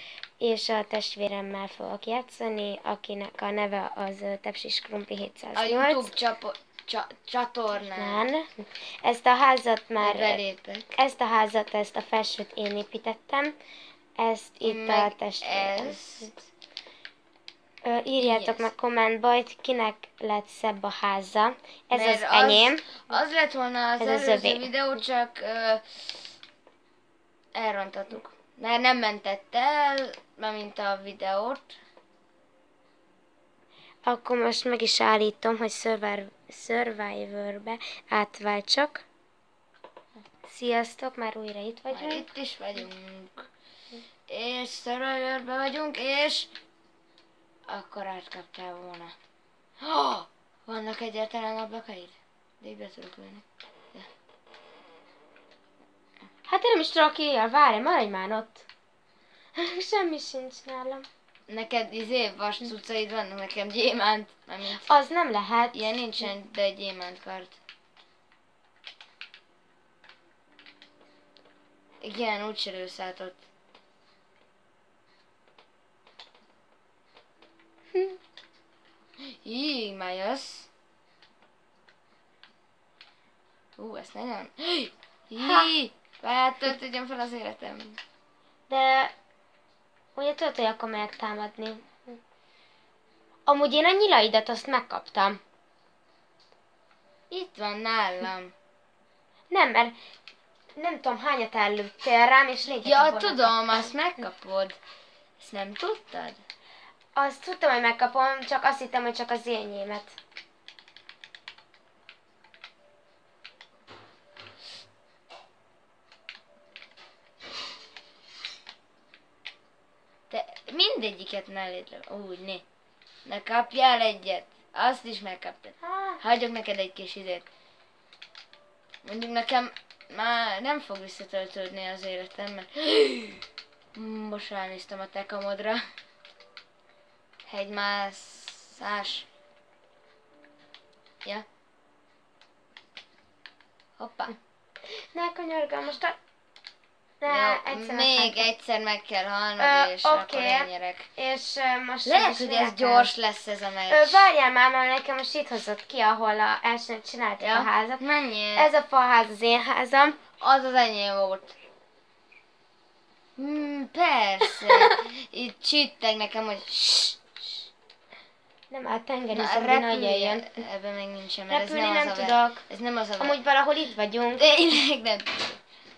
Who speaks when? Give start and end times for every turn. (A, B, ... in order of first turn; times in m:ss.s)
0:00.4-0:06.1 A
0:05.5-0:08.2 B
0:07.9-0:10.4 A
0:10.0-0:11.0 B
0:11.0-0:13.6 A
0:14.2-0:16.3 A
0:14.6-0:16.5 B
0:17.8-0:23.0 A
0:18.2-0:18.7 B
0:21.9-0:26.2 B
0:24.0-0:24.7 A
0:27.5-0:31.7 B
0:34.0-0:39.0 A
0:40.4-0:42.3 A
0:41.9-0:43.5 B
0:44.3-0:46.5 B
0:47.7-0:49.2 B
0:49.8-0:54.1 B
0:56.4-0:58.7 A
0:59.5-1:01.1 A
1:01.5-1:04.8 B
1:04.8-1:05.9 A
1:05.7-1:07.6 B
1:12.0-1:13.4 B
1:19.2-1:20.7 B
1:23.8-1:28.0 B
1:25.4-1:25.7 A
1:28.7-1:29.1 A
1:30.1-1:32.2 A
1:33.4-1:35.4 A
1:37.3-1:38.5 B
1:39.5-1:39.9 A
1:40.8-1:43.5 A
1:42.8-1:44.8 B
1:45.4-1:46.4 B
1:47.2-1:50.2 A
2:00.3-2:02.6 B
2:03.2-2:07.5 B
2:05.8-2:06.2 A
2:09.0-2:15.8 B
2:17.4-2:19.2 B
2:24.0-2:24.3 B
2:24.8-2:26.2 A
2:27.2-2:28.5 A
2:27.3-2:31.1 B
2:29.6-2:33.1 A
2:32.0-2:34.3 B
2:33.9-2:38.0 A
2:37.4-2:38.7 B
2:38.6-2:40.2 A
2:40.4-2:41.5 B
2:43.4-2:47.2 B
2:48.7-2:50.6 A
2:49.3-2:53.4 B
2:51.5-2:52.6 A
2:53.2-2:54.4 A
2:54.3-2:55.6 B